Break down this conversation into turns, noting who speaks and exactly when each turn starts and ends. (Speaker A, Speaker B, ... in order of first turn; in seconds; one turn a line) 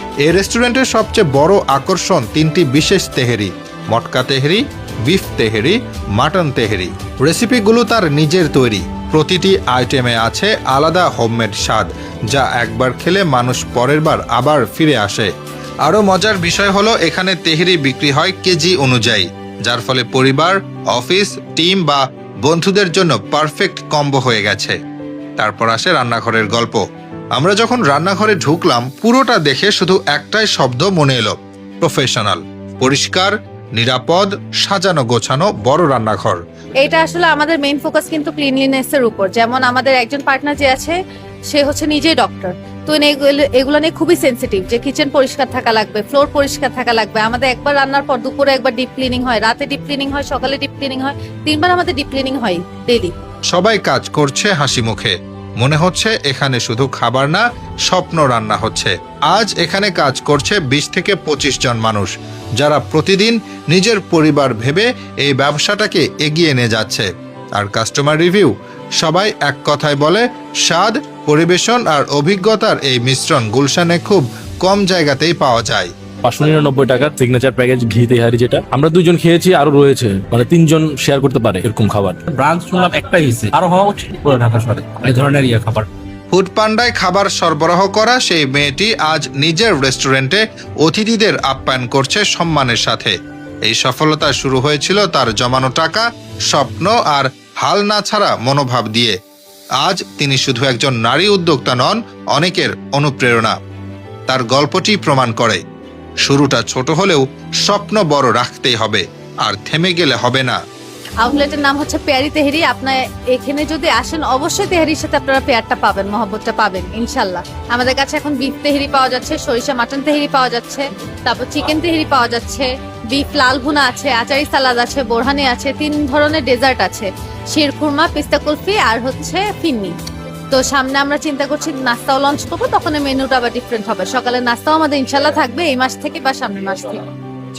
Speaker A: 0.2-15.3
Speaker A: 15.8-24.8
Speaker A: 25.4-26.8
Speaker A: 27.4-36.4
Speaker B: 36.8-41.0
Speaker B: 41.5-53.1
Speaker A: 53.5-75.9
Speaker C: 76.2-82.2
Speaker D: 82.3-85.9
Speaker A: 86.3-93.1
Speaker A: 93.7-99.2
Speaker A: 99.8-103.5
Speaker A: 104.3-105.6
Speaker A: 106.2-110.6
Speaker B: 111.2-129.9
Speaker B: 130.5-137.0